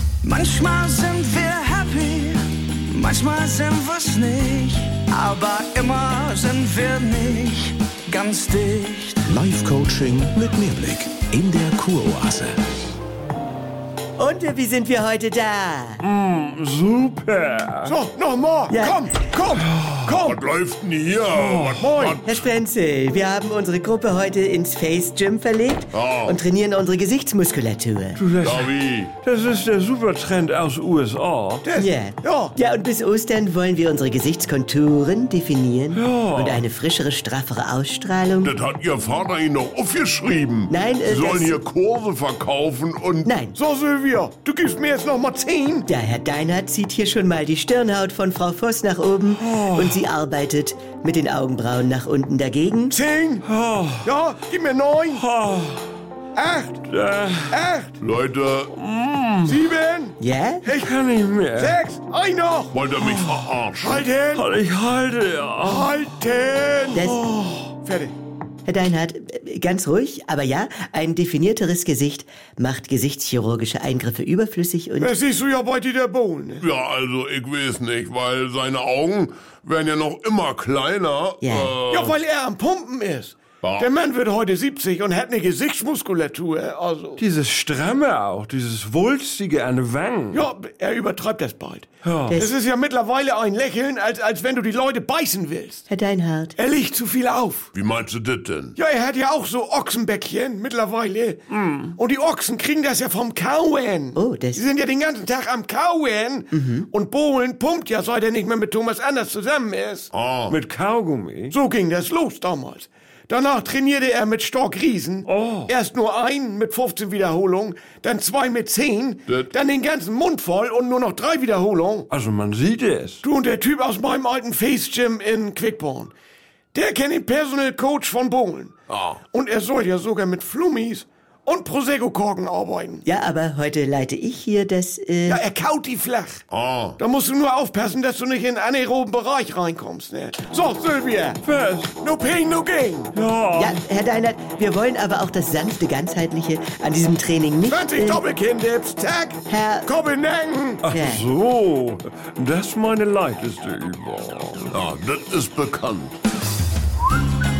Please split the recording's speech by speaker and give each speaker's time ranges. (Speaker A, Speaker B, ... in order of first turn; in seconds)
Speaker A: 0.2-9.2
Speaker B: 9.2-12.6
Speaker C: 14.2-16.0, 18.7-19.1, 22.2-28.2, 31.7-38.5, 40.7-41.6, 43.2-43.5, 45.9-53.0, 60.2-60.6, 66.9-67.2, 68.7-75.1, 81.4-81.8, 92.3-92.5, 95.9-96.5, 104.1-104.6, 106.5-106.8, 133.0-135.4, 143.5-148.2, 149.5-149.9, 150.9-151.2
Speaker D: 16.0-18.0, 21.3-21.9, 28.1-31.6, 35.9-36.6, 49.3-50.0, 53.4-54.1, 55.1-55.8, 56.9-57.6, 58.7-59.6, 60.7-61.8, 63.0-63.5, 64.3-66.0, 87.2-90.4, 92.0-92.4, 101.5-101.9, 110.5-111.5, 115.2-115.7, 122.1-123.2, 141.4-141.9, 143.1-143.8, 150.8-154.8
Speaker E: 17.8-20.4, 21.7-22.2, 31.6-32.5, 43.5-45.9, 52.9-53.4, 54.0-55.2, 56.3-56.8, 57.5-58.0, 59.4-60.8, 61.5-62.8, 63.8-64.5, 65.6-68.1, 75.0-76.6, 81.9-87.2, 90.3-95.9, 96.6-97.7, 98.8-101.4, 102.0-110.1, 111.5-122.1, 123.2-126.1, 126.7-133.0, 135.3-136.4, 137.0-141.4, 142.0-143.1, 147.7-150.8
Speaker F: 20.2-22.4, 25.9-26.4, 28.4-29.1, 38.4-43.3, 58.0-58.7, 62.7-64.0, 76.6-82.2, 83.6-83.9, 97.7-98.8, 110.1-110.6, 128.9-129.2, 136.5-137.0, 154.7-156.2